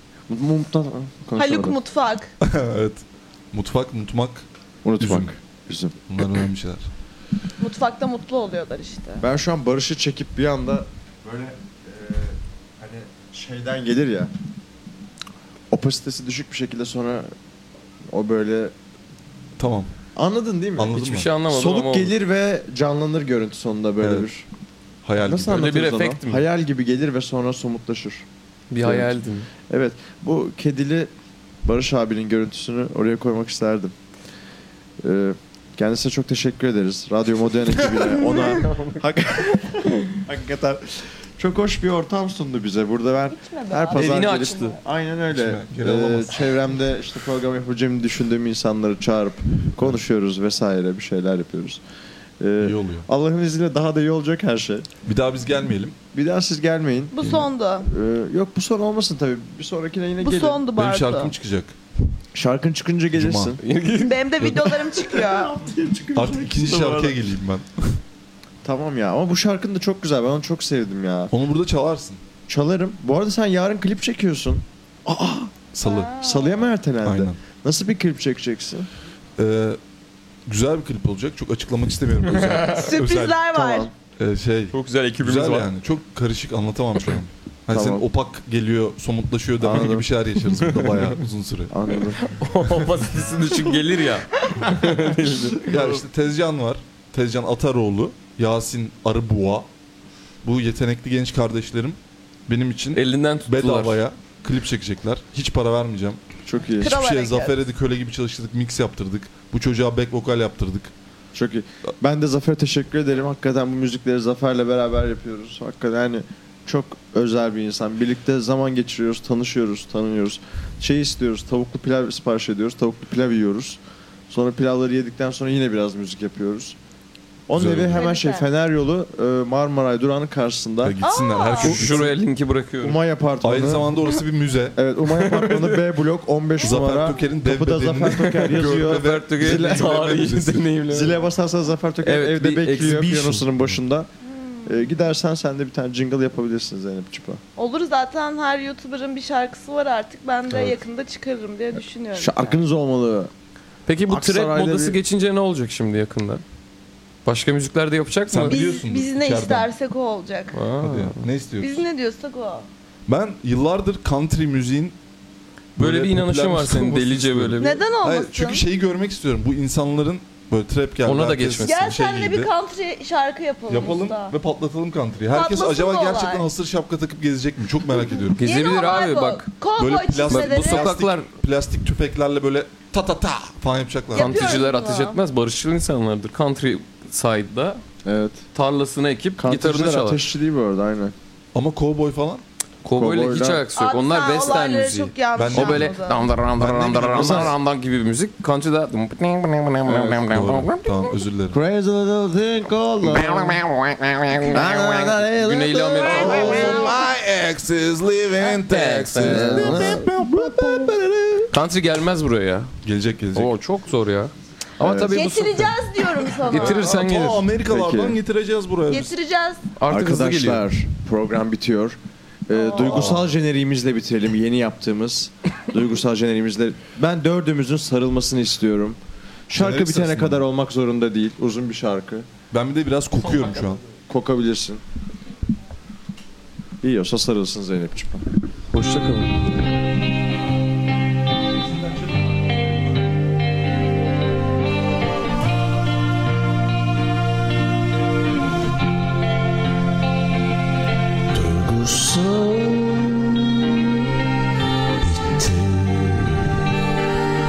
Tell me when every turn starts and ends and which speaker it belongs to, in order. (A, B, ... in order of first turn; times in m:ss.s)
0:00.3-0:01.8 A
0:01.4-0:02.3 B
0:02.4-0:04.5 C
0:04.8-0:06.0 A
0:05.0-0:05.3 C
0:06.1-0:06.9 C
0:07.6-0:09.2 B
0:09.2-0:14.3 A
0:15.7-0:17.3 A
0:18.1-0:18.7 A
0:19.6-0:19.9 C
0:20.2-0:21.0 A
0:20.8-0:21.3 C
0:20.9-0:22.1 D
0:21.5-0:24.5 A
0:24.0-0:24.3 C
0:25.0-0:25.7 C
0:25.2-0:28.2 A
0:25.5-0:26.4 D
0:28.7-0:29.5 D
0:28.8-0:31.1 A
0:31.6-0:33.9 A
0:35.0-0:51.8 A
0:38.6-0:38.9 D
0:43.3-0:44.8 B
0:43.9-0:44.8 D
0:45.3-0:46.4 C
0:52.4-0:54.9 A
0:52.6-0:53.1 C
0:55.1-0:56.0 C
0:56.1-1:00.6 A
0:57.1-0:57.9 B
1:00.2-1:01.3 B
1:00.8-1:01.7 C
1:02.3-1:03.6 A
1:03.1-1:03.6 C
1:03.6-1:04.7 D
1:04.0-1:05.5 B
1:05.0-1:07.2 A
1:06.2-1:08.0 C
1:08.6-1:11.3 A
1:11.3-1:12.2 C
1:12.5-1:15.6 A
1:15.7-1:16.2 C
1:15.8-1:16.7 B
1:16.2-1:18.9 A
1:17.0-1:17.4 C
1:19.4-1:19.8 C
1:20.5-1:23.4 C
1:22.4-1:22.8 D
1:22.7-1:23.9 B
1:23.5-1:23.9 A
1:24.2-1:31.7 C
1:24.7-1:25.7 D
1:27.7-1:28.1 A
1:29.6-1:30.1 A
1:31.7-1:32.2 A
1:32.2-1:35.6 D
1:35.6-1:36.0 A
1:35.7-1:39.7 C
1:40.4-1:46.2 C
1:42.9-1:44.0 D
1:46.4-1:46.9 A
1:46.8-1:47.6 B
1:46.8-1:50.9 C
1:51.3-2:03.8 A
2:04.3-2:06.8 A
2:07.5-2:11.0 A
2:07.5-2:08.1 C
2:07.9-2:08.5 B
2:10.8-2:12.2 C
2:11.0-2:11.8 B
2:11.6-2:13.0 D
2:12.8-2:13.9 A
2:13.4-2:14.8 C
2:14.8-2:20.2 A
2:15.0-2:15.8 D
2:16.6-2:20.7 C
2:18.2-2:21.2 D
2:20.9-2:24.1 A
2:22.0-2:23.4 D
2:24.6-2:27.4 A
2:27.6-2:32.6 B
2:32.1-2:33.3 A
2:33.9-2:36.4 D
2:34.1-2:35.0 A
2:37.2-2:38.6 D
2:38.3-2:39.7 C
2:38.5-2:40.6 B
2:40.5-2:41.2 D
2:40.8-2:41.8 C
2:41.6-2:42.7 B
2:43.1-2:45.0 C
2:45.8-2:52.5 C
2:45.8-2:47.8 D
2:47.6-2:48.6 B
2:51.0-2:51.8 D
2:51.6-2:54.3 B
2:53.7-2:58.4 C
2:55.3-2:56.4 B
2:58.3-3:00.9 B
2:58.4-2:59.5 D
2:59.8-3:04.6 C
3:00.3-3:01.3 D
3:04.1-3:05.2 B
3:04.2-3:07.8 D
3:08.0-3:08.4 A
3:08.5-3:10.2 D
3:09.4-3:11.1 A
3:11.5-3:12.4 C
3:12.8-3:20.9 D
3:12.9-3:13.6 A
3:13.8-3:16.2 B
3:15.4-3:16.0 C
3:16.6-3:17.5 C
3:17.0-3:17.5 A
3:19.9-3:20.3 A
3:20.3-3:21.6 C
3:21.5-3:23.6 A
3:23.3-3:26.9 D
3:24.3-3:26.9 A
3:26.1-3:31.0 C
3:26.1-3:27.0 B
3:28.4-3:28.6 B
3:28.6-3:30.0 D
3:29.2-3:31.4 A
3:31.5-3:32.7 D
3:32.8-3:33.5 C
3:33.3-3:37.5 D
3:34.8-3:35.2 A
3:35.0-3:37.0 B
3:36.5-3:39.2 C
3:37.6-3:38.2 A
3:38.9-3:39.6 B
3:39.8-3:40.7 D
3:39.9-3:49.0 A
3:42.5-3:43.1 B
3:42.7-3:43.3 C
3:49.5-3:52.3 A
3:49.5-3:50.4 C
3:52.5-3:53.8 C
3:54.1-3:54.8 A
3:56.8-3:58.2 A
3:58.7-3:59.8 D
4:11.3-4:14.0 E
4:15.0-4:16.7 E